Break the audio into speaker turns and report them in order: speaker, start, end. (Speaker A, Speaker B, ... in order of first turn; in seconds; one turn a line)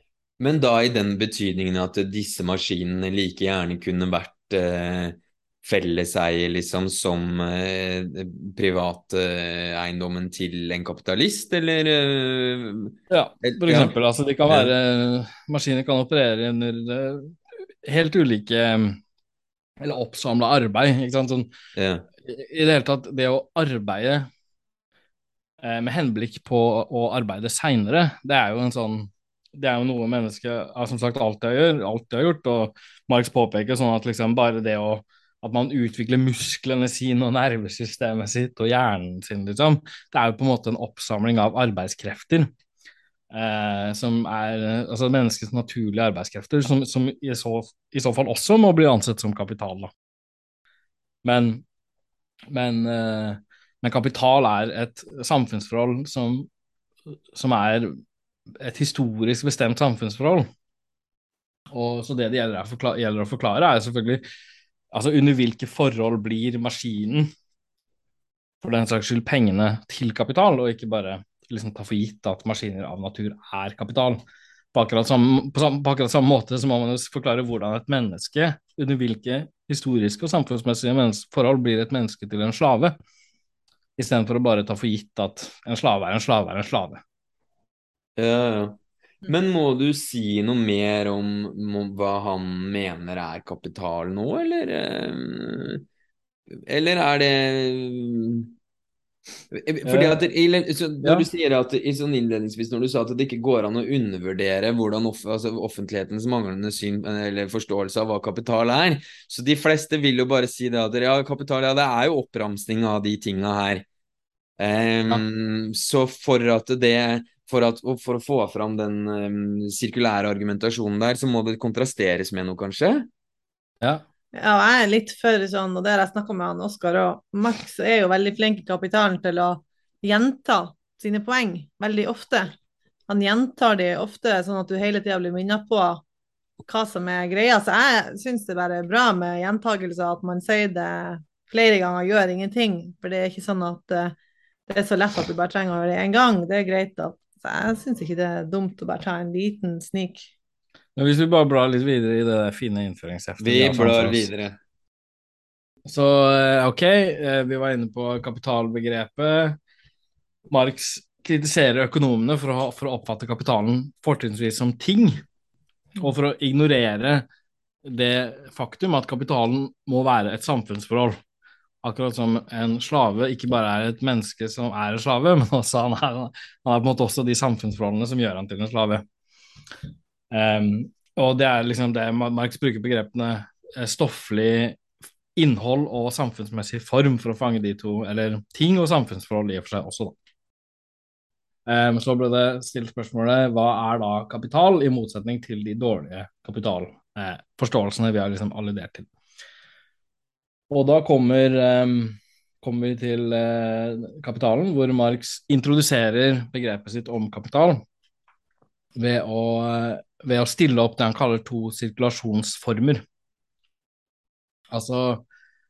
Speaker A: 0.4-13.9
Speaker B: 13.1-19.0
Speaker A: 14.5-14.7
Speaker B: 19.8-21.5
Speaker A: 21.8-22.1
Speaker B: 22.2-24.3
Speaker B: 25.6-42.5
Speaker B: 43.3-49.9
Speaker B: 51.2-51.6
Speaker B: 52.5-56.5
Speaker B: 57.3-57.9
Speaker B: 58.6-60.5
Speaker B: 61.7-64.2
Speaker B: 64.9-67.3
Speaker B: 68.6-74.2
Speaker B: 74.7-83.0
Speaker B: 84.0-87.0
Speaker A: 88.2-95.8
Speaker A: 96.7-98.5
Speaker A: 99.5-113.8
Speaker B: 99.9-100.2
Speaker A: 114.6-123.1
Speaker C: 124.3-132.5
Speaker C: 133.1-136.0
Speaker C: 136.7-144.2
Speaker C: 144.7-150.3
Speaker B: 151.0-154.3
Speaker A: 153.4-154.6
Speaker B: 155.9-159.6
Speaker B: 160.5-165.2
Speaker B: 166.0-167.3
Speaker B: 167.8-171.2
Speaker B: 171.8-179.0
Speaker B: 180.3-184.8
Speaker B: 185.4-190.2
Speaker B: 191.7-199.1
Speaker B: 200.7-207.8
Speaker B: 208.9-213.0
Speaker B: 214.7-215.2